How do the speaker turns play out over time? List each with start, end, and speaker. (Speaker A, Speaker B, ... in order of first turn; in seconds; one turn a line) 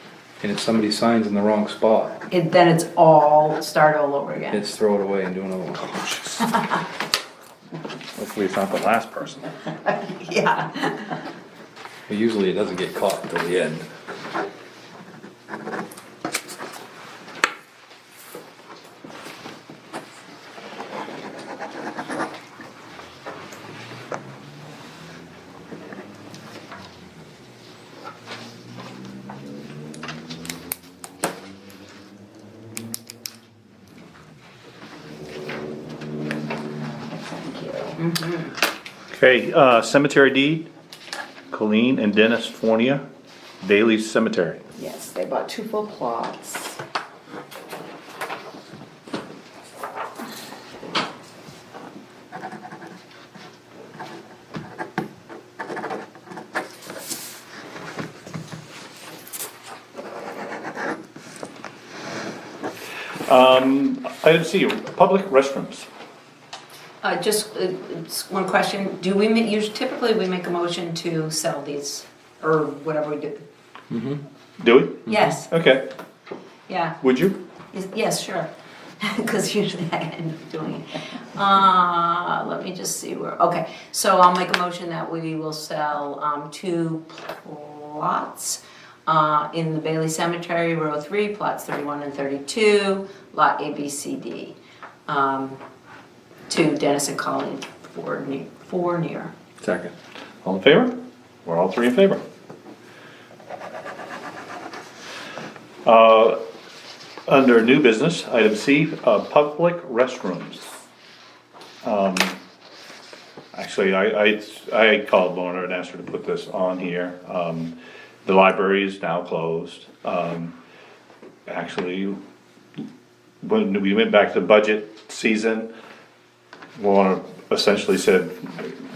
Speaker A: 0.4-2.2
Speaker B: 2.3-4.6
Speaker A: 4.5-6.4
Speaker C: 8.2-9.5
Speaker B: 9.8-11.2
Speaker A: 12.1-13.9
Speaker D: 37.1-38.0
Speaker B: 38.0-38.5
Speaker C: 39.1-40.7
Speaker C: 41.5-43.0
Speaker C: 43.6-44.6
Speaker D: 44.7-46.8
Speaker C: 63.3-65.9
Speaker B: 67.0-73.5
Speaker A: 73.9-74.2
Speaker C: 74.6-75.8
Speaker B: 75.0-75.5
Speaker A: 75.1-75.4
Speaker B: 76.7-77.0
Speaker C: 77.0-77.4
Speaker B: 77.7-94.5
Speaker B: 95.1-95.6
Speaker B: 96.5-99.3
Speaker A: 99.6-99.9
Speaker C: 100.4-102.2
Speaker C: 105.8-106.4
Speaker C: 107.3-110.7
Speaker C: 111.8-112.4
Speaker C: 113.5-120.5
Speaker C: 121.5-122.2
Speaker C: 123.4-125.7
Speaker C: 126.7-128.8